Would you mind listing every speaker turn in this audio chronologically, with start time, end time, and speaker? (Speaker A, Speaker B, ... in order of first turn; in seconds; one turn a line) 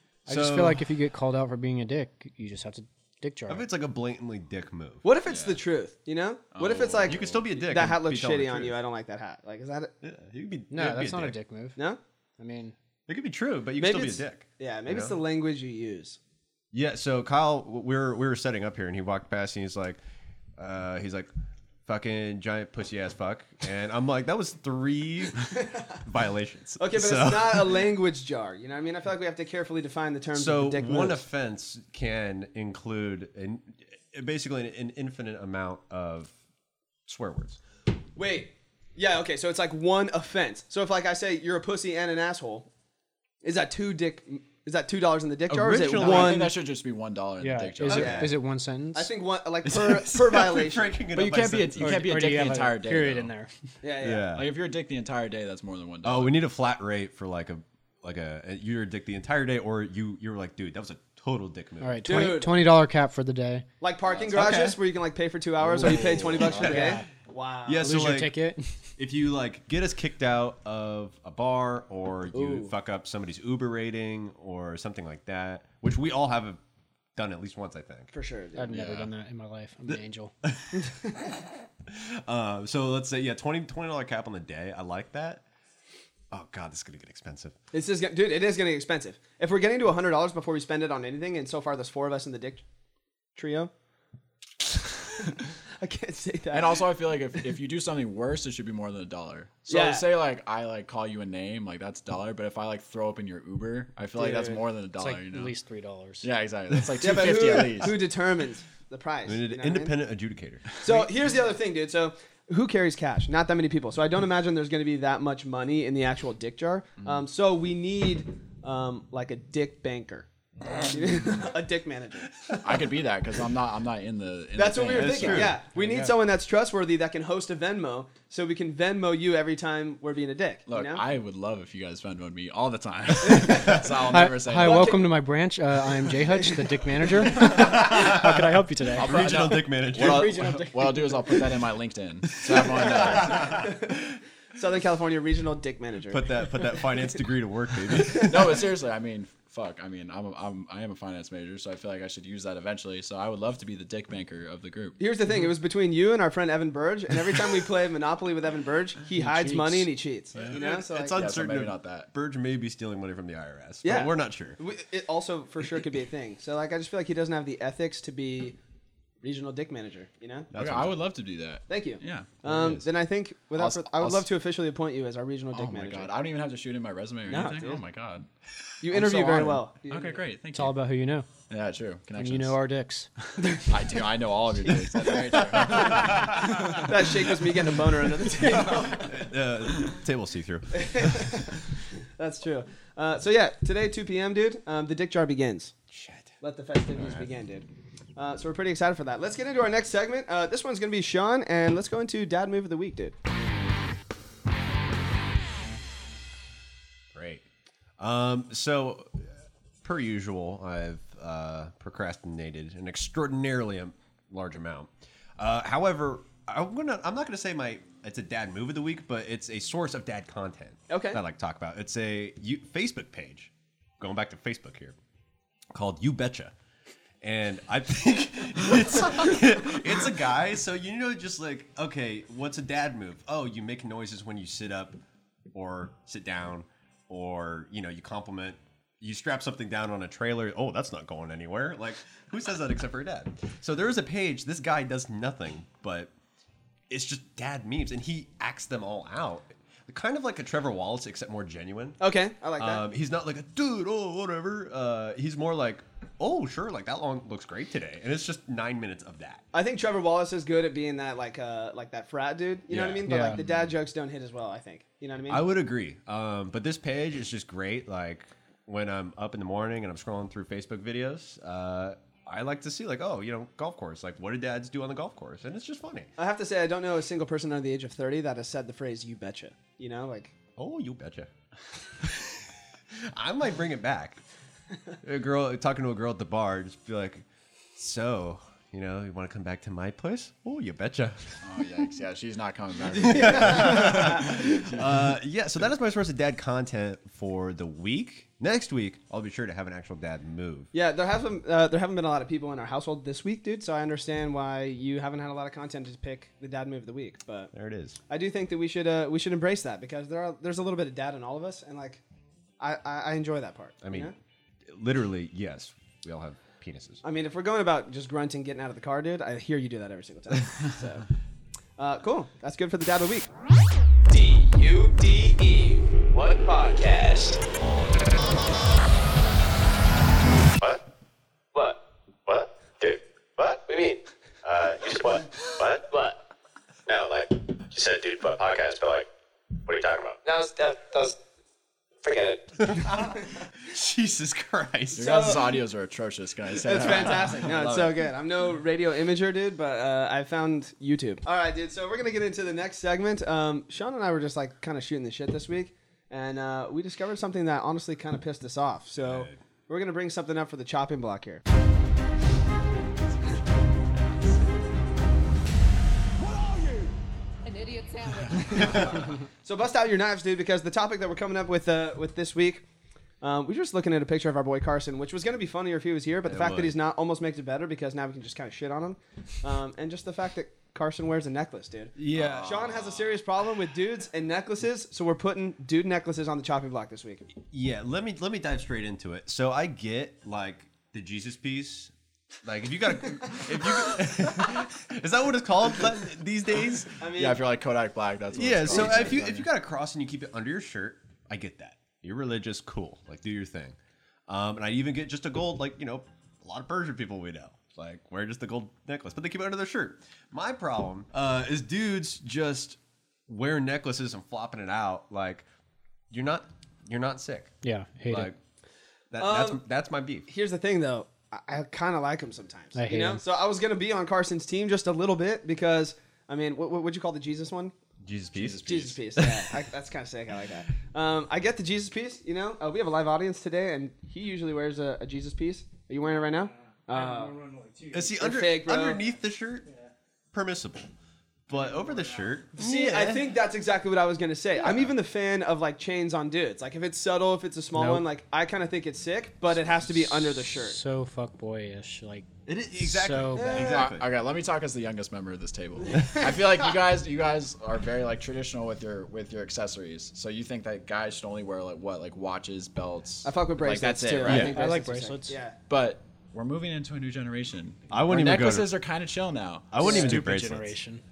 Speaker A: 0.3-0.8
Speaker B: 0.3-3.7
Speaker A: 3.5-5.0
Speaker C: 5.0-9.9
Speaker D: 5.2-5.6
Speaker D: 6.5-7.4
Speaker A: 7.0-8.8
Speaker A: 10.0-11.3
Speaker B: 10.7-11.8
Speaker B: 12.4-12.7
Speaker A: 13.1-15.2
Speaker C: 13.8-16.2
Speaker A: 16.7-20.0
Speaker A: 20.6-21.3
Speaker A: 21.9-27.9
Speaker C: 25.6-26.0
Speaker C: 26.8-31.2
Speaker A: 30.3-36.3
Speaker A: 37.0-37.6
Speaker C: 38.1-42.7
Speaker C: 43.4-46.5
Speaker A: 45.5-46.4
Speaker D: 45.9-48.3
Speaker B: 47.4-49.1
Speaker A: 47.9-48.3
Speaker C: 47.9-48.3
Speaker C: 48.9-51.0
Speaker A: 49.6-52.2
Speaker D: 51.1-53.3
Speaker B: 51.8-53.5
Speaker C: 53.8-54.3
Speaker A: 54.0-54.5
Speaker D: 54.3-56.4
Speaker A: 56.0-62.5
Speaker B: 61.8-63.6
Speaker C: 62.0-62.5
Speaker C: 63.8-67.9
Speaker A: 64.3-64.8
Speaker D: 65.7-66.8
Speaker A: 65.8-67.0
Speaker B: 66.6-67.0
Speaker A: 67.7-68.4
Speaker B: 67.8-68.7
Speaker A: 69.0-76.6
Speaker C: 72.3-72.7
Speaker A: 77.1-78.1
Speaker C: 78.1-78.7
Speaker B: 78.5-80.3
Speaker D: 78.7-79.1
Speaker A: 80.4-80.9
Speaker C: 80.8-81.1
Speaker A: 81.9-85.4
Speaker A: 86.3-87.5
Speaker C: 87.7-92.6
Speaker C: 93.3-93.7
Speaker C: 95.2-96.9
Speaker D: 96.5-105.5
Speaker C: 99.7-100.1
Speaker C: 104.2-104.6
Speaker B: 105.0-106.3
Speaker D: 106.2-108.0
Speaker C: 107.0-109.9
Speaker A: 109.2-110.7
Speaker C: 110.8-122.4
Speaker D: 122.6-125.5
Speaker C: 124.5-131.0
Speaker A: 124.9-125.6
Speaker B: 125.7-126.1
Speaker D: 130.7-134.9
Speaker C: 133.3-133.8
Speaker A: 133.5-133.8
Speaker B: 134.1-139.2
Speaker C: 134.6-135.1
Speaker A: 137.4-140.4
Speaker D: 138.9-143.6
Speaker B: 139.9-141.4
Speaker C: 142.7-144.0
Speaker A: 142.8-143.9
Speaker C: 144.5-146.3
Speaker A: 146.1-148.7
Speaker D: 148.2-155.0
Speaker C: 155.0-161.2
Speaker D: 159.2-159.8
Speaker A: 160.4-164.6
Speaker D: 161.1-162.1
Speaker C: 163.8-168.6
Speaker C: 169.2-170.5
Speaker A: 170.5-171.0
Speaker D: 170.5-172.4
Speaker C: 171.7-176.1
Speaker A: 172.4-172.8
Speaker D: 173.6-174.2
Speaker D: 175.5-178.3
Speaker C: 177.3-177.8
Speaker C: 178.8-180.2
Speaker D: 178.8-180.8
Speaker B: 180.5-181.3
Speaker D: 181.5-182.6
Speaker B: 182.2-183.1
Speaker D: 183.5-186.8
Speaker C: 184.7-186.0
Speaker A: 185.6-186.9
Speaker C: 186.6-189.3
Speaker A: 188.4-191.2
Speaker C: 190.7-191.7
Speaker C: 192.2-195.7
Speaker A: 195.9-196.3
Speaker C: 196.4-203.1
Speaker A: 196.9-197.3
Speaker A: 207.1-207.4
Speaker A: 208.0-209.3
Speaker A: 209.8-225.0
Speaker C: 220.9-221.2
Speaker A: 225.7-226.5
Speaker A: 227.2-235.0
Speaker A: 235.5-246.1
Speaker A: 246.9-252.0
Speaker C: 252.0-252.8
Speaker A: 252.6-259.4
Speaker C: 259.5-265.4
Speaker A: 262.7-263.6
Speaker B: 263.1-263.4
Speaker A: 265.3-276.1
Speaker C: 276.2-280.3
Speaker A: 280.6-281.3
Speaker A: 282.0-284.2
Speaker A: 285.0-291.4
Speaker D: 291.4-295.0
Speaker A: 292.9-300.7
Speaker C: 293.1-294.3
Speaker C: 300.7-307.5
Speaker A: 307.5-308.0
Speaker C: 308.1-312.0
Speaker C: 312.6-314.1
Speaker A: 313.8-314.1
Speaker A: 314.7-317.0
Speaker C: 317.0-321.1
Speaker C: 321.8-323.3
Speaker E: 324.1-327.4
Speaker E: 330.6-330.8
Speaker E: 331.5-336.2
Speaker E: 336.9-339.1
Speaker E: 339.6-341.1
Speaker E: 342.0-342.4
Speaker A: 342.6-345.4
Speaker D: 344.9-348.0
Speaker C: 345.0-345.6
Speaker C: 346.6-361.4
Speaker A: 359.0-359.4
Speaker A: 366.3-366.8
Speaker C: 368.5-372.6
Speaker A: 368.5-369.1
Speaker C: 373.2-387.2
Speaker A: 376.2-376.8
Speaker A: 382.0-382.7
Speaker D: 382.1-383.1
Speaker A: 387.5-391.9
Speaker A: 392.4-397.0
Speaker C: 397.0-397.4
Speaker D: 397.1-399.5
Speaker A: 398.3-403.8
Speaker C: 398.7-399.1
Speaker A: 404.3-415.4
Speaker A: 416.1-417.5
Speaker B: 417.6-418.3
Speaker A: 418.1-418.4
Speaker A: 419.1-420.3
Speaker C: 419.2-419.6
Speaker C: 420.3-427.7
Speaker B: 422.7-423.2
Speaker A: 428.0-429.3
Speaker D: 428.3-428.9
Speaker C: 428.6-437.4
Speaker B: 436.9-437.9
Speaker A: 437.9-439.7
Speaker C: 438.1-439.0
Speaker A: 440.3-440.9
Speaker A: 441.5-443.3
Speaker C: 442.6-450.8
Speaker A: 444.6-444.9
Speaker B: 447.7-448.1
Speaker B: 450.6-453.6
Speaker A: 452.4-454.1
Speaker C: 453.3-453.9
Speaker D: 453.5-464.5
Speaker C: 463.2-465.6
Speaker A: 464.2-464.5
Speaker B: 464.3-465.3
Speaker D: 465.7-470.2
Speaker A: 467.9-468.7
Speaker A: 469.7-470.7
Speaker B: 469.8-471.0